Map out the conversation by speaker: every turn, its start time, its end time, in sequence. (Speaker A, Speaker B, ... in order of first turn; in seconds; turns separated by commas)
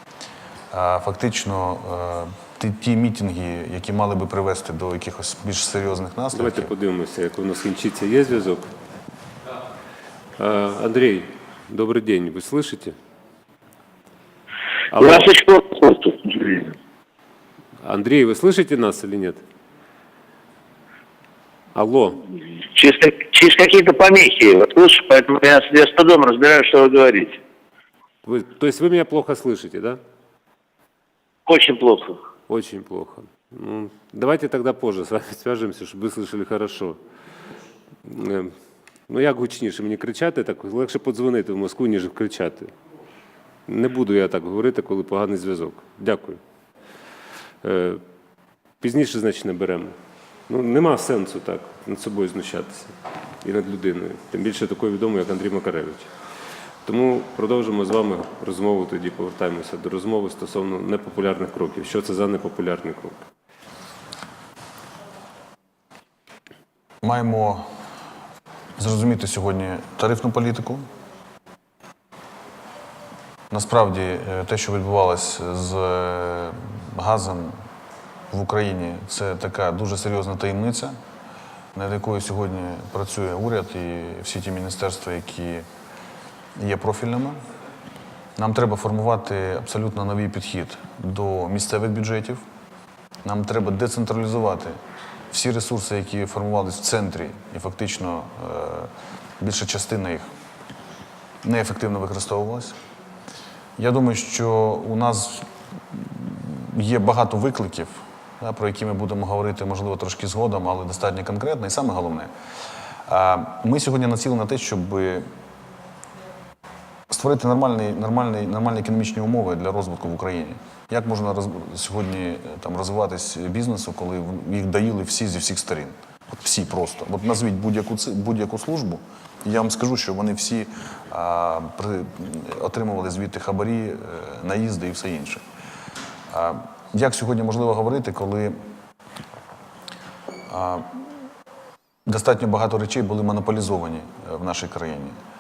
Speaker A: 0.7-6.7, Speaker B: 6.3-8.7, Speaker B: 10.4-13.0, Speaker B: 14.9-15.3, Speaker C: 15.0-16.7, Speaker B: 17.8-19.4, Speaker B: 21.8-22.2, Speaker C: 22.7-27.4, Speaker B: 28.2-30.0, Speaker C: 31.5-32.2, Speaker B: 32.5-37.0, Speaker B: 38.0-38.6, Speaker B: 39.1-42.7, Speaker B: 43.7-46.4, Speaker B: 47.6-48.0, Speaker B: 48.8-49.9, Speaker B: 50.5-56.1, Speaker B: 56.9-63.3, Speaker A: 67.0-67.7, Speaker A: 68.8-70.8, Speaker A: 73.5-77.5, Speaker A: 78.3-80.9, Speaker A: 81.7-85.7, Speaker A: 86.5-87.4, Speaker A: 88.4-92.4, Speaker A: 93.2-94.8, Speaker A: 95.3-100.3, Speaker A: 101.4-102.8, Speaker A: 103.8-112.3, Speaker A: 113.1-115.3, Speaker A: 117.1-135.4, Speaker A: 136.3-138.6, Speaker A: 140.5-141.0, Speaker A: 142.1-145.2